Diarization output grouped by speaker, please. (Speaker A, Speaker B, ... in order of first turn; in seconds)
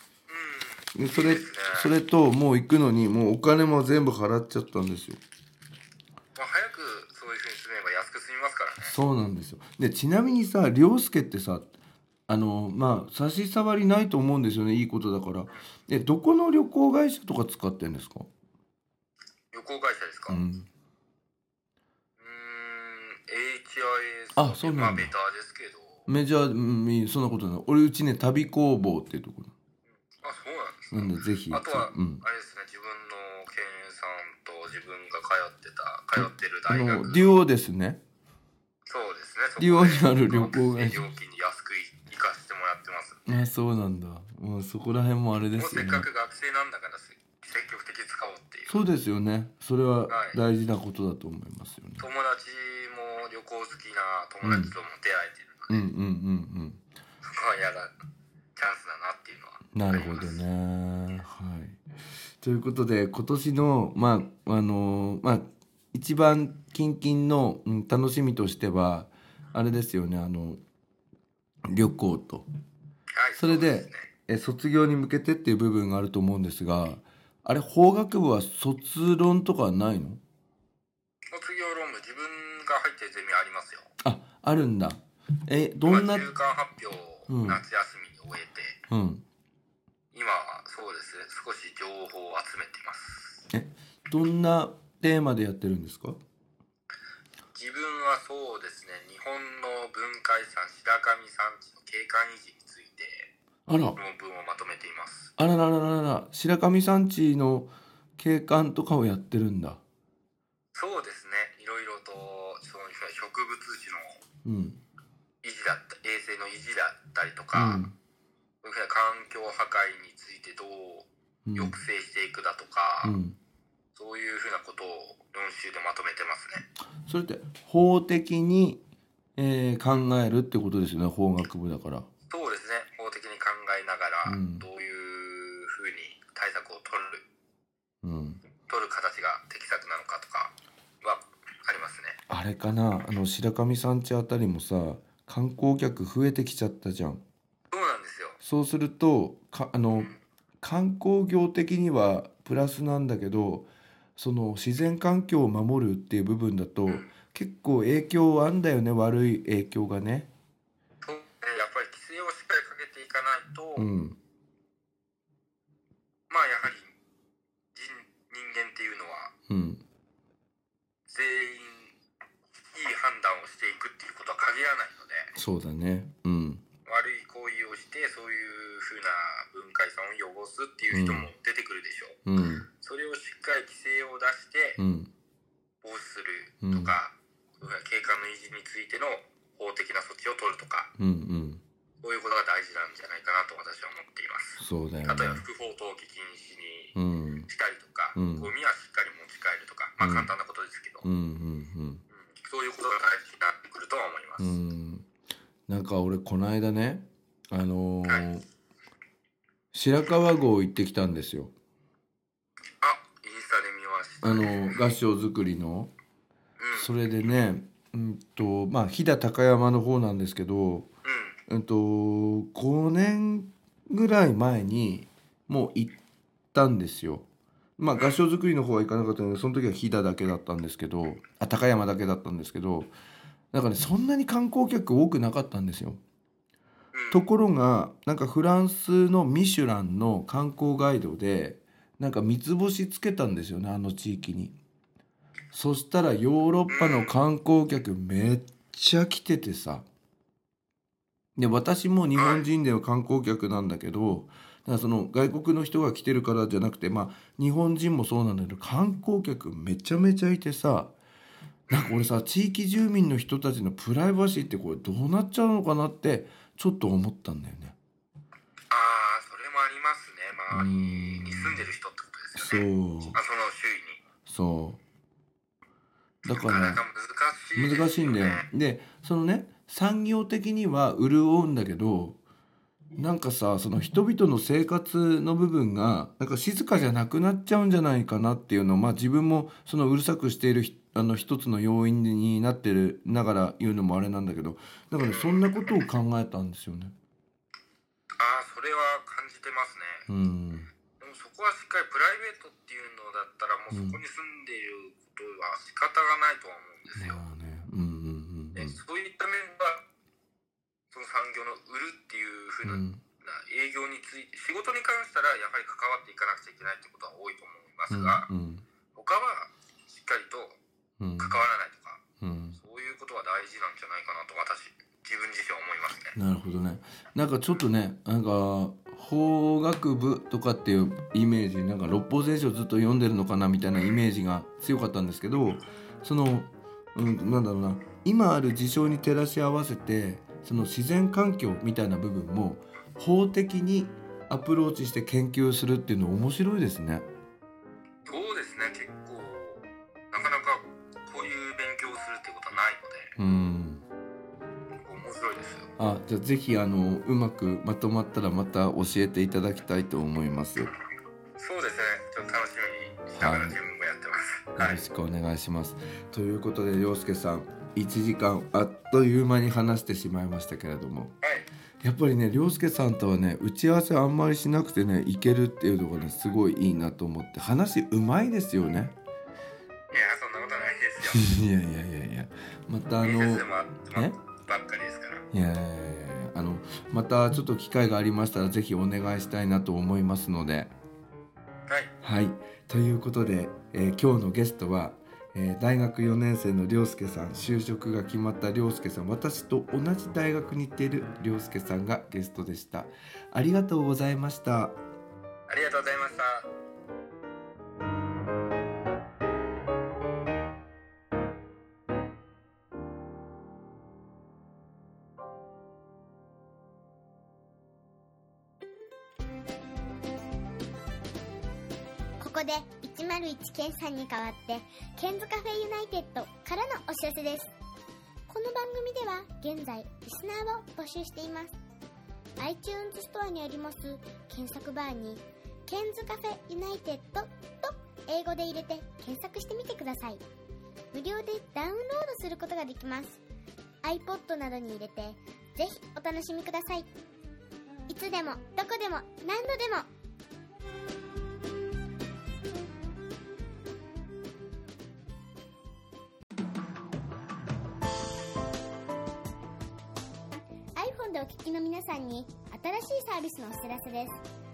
Speaker A: 0.3-1.9, 6.3-8.9, 19.5-20.4, 22.2-26.1, 30.2-37.4, 38.9-43.2, 45.6-48.8, 50.1-50.4, 52.0-55.8, 57.2-57.9, 58.5-60.4, 73.1-74.1, 81.3-83.9, 85.8-88.8, 90.1-93.4, 97.5-103.3, 104.0-105.3, 110.7-114.2, 115.4-117.8, 118.6-123.2, 123.9-126.6, 132.3-137.2, 138.7-142.2, 147.7-148.4, 161.0-163.9, 166.3-166.9, 167.7-169.3, 171.1-171.9, 172.7-175.3, 176.8-182.2, 182.8-184.8, 185.8-190.9, 192.0-196.9, 197.5-201.1, 202.2-204.5, 212.8-214.9, 216.6-216.9, 221.0-221.4, 227.9-228.2, 236.9-237.3, 246.7-247.2, 252.1-252.4, 261.7-262.1, 268.7-274.0, 276.2-278.4, 295.1-295.4, 298.2-300.1, 301.0-307.2, 308.5-309.8, 310.9-318.3, 318.9-320.6, 321.2-322.0, 322.5-326.1, 348.0-353.1, 354.8-355.7, 361.4-364.8, 371.2-371.5, 379.9-381.2, 383.0-385.2, 405.5-406.5
Speaker B: 0.9-5.2, 8.8-11.7, 12.3-18.3, 20.3-20.7, 24.4-25.1, 26.1-29.5, 30.9-32.2, 36.1-38.0, 39.6-41.0, 43.2-46.1, 48.7-52.0, 54.4-54.7, 55.7-56.8, 59.7-61.8, 62.4-70.6, 71.7-72.5, 73.4-80.2, 84.0-86.3, 87.3-87.6, 88.9-89.2, 93.5-96.2, 103.7-104.0, 105.4-109.8, 114.4-114.8, 117.5-117.9, 121.4-121.7, 123.0-123.4, 127.0-128.8, 129.4-132.1, 134.2-134.7, 138.0-138.4, 142.3-147.2, 148.4-160.3, 163.8-164.2, 169.5-169.8, 175.3-176.6, 180.9-181.3, 182.2-182.7, 184.8-185.1, 186.6-186.9, 191.0-191.6, 194.6-195.4, 196.9-197.5, 198.1-198.5, 200.0-200.3, 201.0-202.0, 204.4-205.1, 205.7-208.4, 209.7-211.5, 214.2-215.9, 216.7-220.9, 221.5-226.0, 226.5-227.2, 227.8-232.9, 233.5-236.0, 237.1-244.6, 245.5-249.8, 251.3-260.9, 261.7-267.8, 270.5-271.6, 272.4-273.2, 274.2-274.8, 276.2-276.8, 277.6-282.2, 283.0-296.9, 300.1-300.7, 303.7-304.0, 306.9-308.8, 312.6-313.0, 317.9-318.6, 321.0-321.4, 322.2-322.6, 326.1-347.1, 353.2-353.8, 355.8-360.7, 363.2-363.6, 364.6-371.1, 371.8-378.9, 381.0-384.1, 385.3-390.7, 392.0-404.8
Speaker C: 422.2-427.5, 428.3-431.5, 432.4-440.2, 440.9-443.2, 443.8-446.9, 447.9-449.9, 460.8-464.2